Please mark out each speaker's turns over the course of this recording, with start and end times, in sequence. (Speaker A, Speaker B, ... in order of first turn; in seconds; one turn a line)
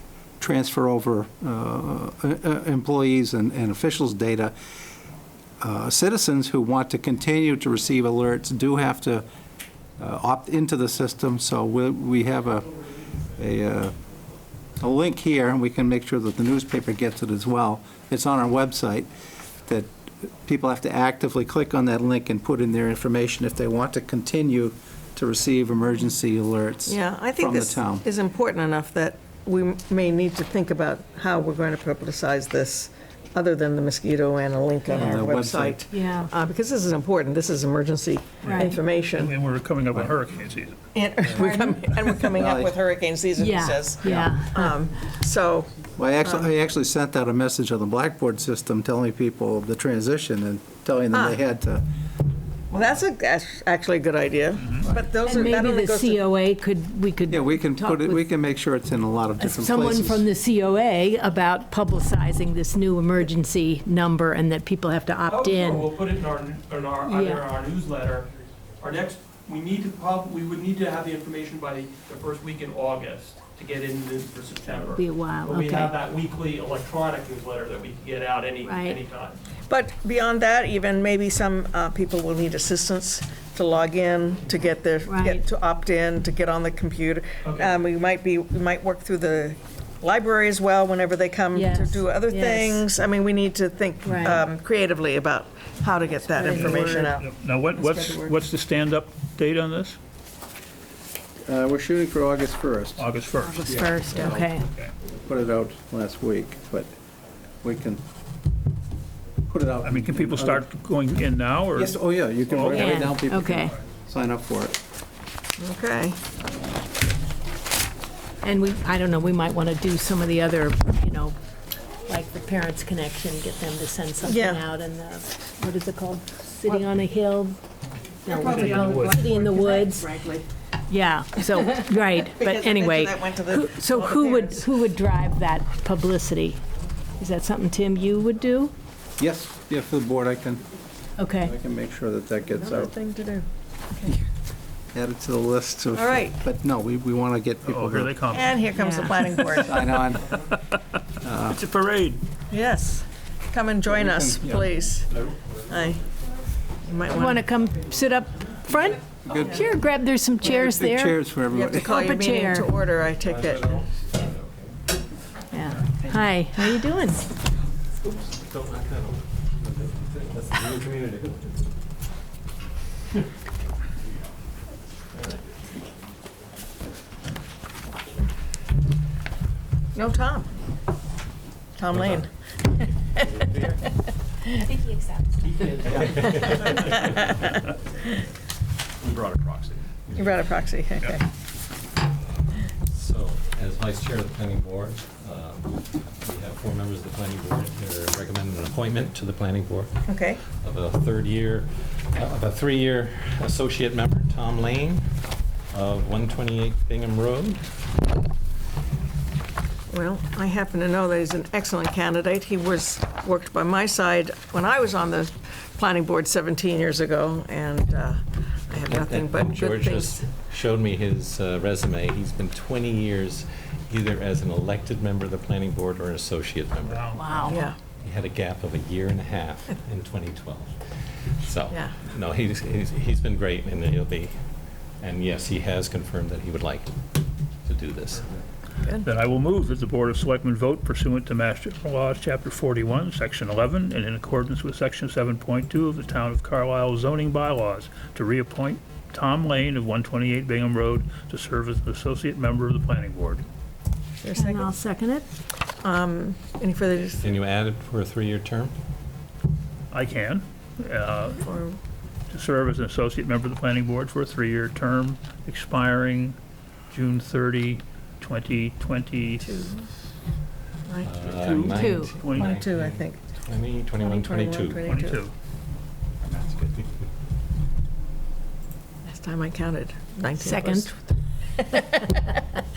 Speaker A: 0.4-4.5
Speaker A: 5.6-9.3
Speaker A: 10.0-12.7
Speaker A: 13.4-13.9
Speaker A: 14.8-19.1
Speaker A: 20.4-28.1
Speaker B: 26.9-39.3
Speaker A: 34.9-35.9
Speaker C: 34.9-35.3
Speaker C: 35.9-36.3
Speaker D: 38.4-41.4
Speaker B: 40.9-46.5
Speaker C: 41.4-41.6
Speaker A: 42.3-42.7
Speaker C: 43.4-44.7
Speaker A: 46.0-51.9
Speaker B: 51.1-51.4
Speaker B: 52.7-56.2
Speaker D: 54.6-54.9
Speaker C: 55.2-58.2
Speaker A: 57.3-60.3
Speaker C: 59.4-65.9
Speaker E: 65.3-68.2
Speaker C: 67.0-67.5
Speaker E: 68.8-79.4
Speaker C: 74.7-76.0
Speaker C: 78.6-79.0
Speaker B: 79.7-98.3
Speaker C: 85.1-85.5
Speaker E: 87.4-87.7
Speaker C: 91.5-92.9
Speaker C: 94.0-94.4
Speaker C: 96.3-97.0
Speaker D: 96.6-100.0
Speaker A: 101.5-103.1
Speaker D: 103.0-103.6
Speaker C: 103.5-104.7
Speaker A: 103.7-104.5
Speaker A: 105.2-106.9
Speaker A: 107.6-108.0
Speaker A: 109.5-110.6
Speaker D: 109.8-113.1
Speaker A: 111.7-114.8
Speaker C: 112.7-113.8
Speaker B: 115.6-116.2
Speaker C: 118.4-121.4
Speaker C: 122.1-127.6
Speaker B: 124.2-124.6
Speaker C: 128.2-130.1
Speaker B: 128.2-130.5
Speaker D: 128.5-129.2
Speaker C: 130.9-136.6
Speaker B: 131.8-134.7
Speaker C: 137.2-138.7
Speaker A: 139.2-140.7
Speaker C: 141.2-141.5
Speaker A: 141.4-142.9
Speaker B: 142.6-144.1
Speaker A: 144.9-148.2
Speaker B: 145.9-146.4
Speaker D: 147.6-152.3
Speaker B: 148.3-149.9
Speaker C: 148.7-149.1
Speaker A: 149.6-150.3
Speaker A: 151.2-151.6
Speaker B: 152.5-155.1
Speaker A: 153.8-154.7
Speaker F: 155.1-155.5
Speaker B: 155.7-156.0
Speaker B: 156.8-157.5
Speaker C: 157.1-162.7
Speaker A: 159.2-159.7
Speaker B: 159.3-159.6
Speaker A: 160.4-161.9
Speaker B: 161.5-163.9
Speaker F: 163.1-164.8
Speaker C: 165.5-167.2
Speaker F: 168.0-171.7
Speaker F: 175.1-175.4
Speaker B: 179.9-180.5
Speaker B: 181.8-182.3
Speaker C: 184.6-186.4
Speaker E: 185.6-186.0
Speaker F: 185.8-187.3
Speaker B: 190.2-191.2
Speaker F: 192.6-205.0
Speaker B: 200.1-200.4
Speaker F: 205.7-207.6
Speaker B: 209.9-220.3
Speaker F: 218.8-230.7
Speaker D: 226.8-227.3
Speaker C: 227.1-227.6
Speaker B: 227.5-227.8
Speaker F: 231.4-234.3
Speaker B: 231.7-231.9
Speaker F: 235.0-236.9
Speaker F: 237.7-238.3
Speaker D: 239.0-253.4
Speaker B: 254.2-254.7
Speaker C: 254.3-255.3
Speaker B: 255.8-257.3
Speaker F: 257.2-258.7
Speaker D: 259.9-261.5
Speaker B: 261.4-261.8
Speaker D: 262.3-266.4
Speaker D: 266.9-269.7
Speaker B: 269.4-269.8
Speaker B: 270.9-271.2
Speaker F: 271.0-274.8
Speaker D: 271.3-272.6
Speaker C: 271.8-272.1
Speaker B: 272.2-273.2
Speaker B: 274.0-275.2
Speaker D: 274.9-275.3
Speaker B: 279.0-282.1
Speaker C: 280.4-280.9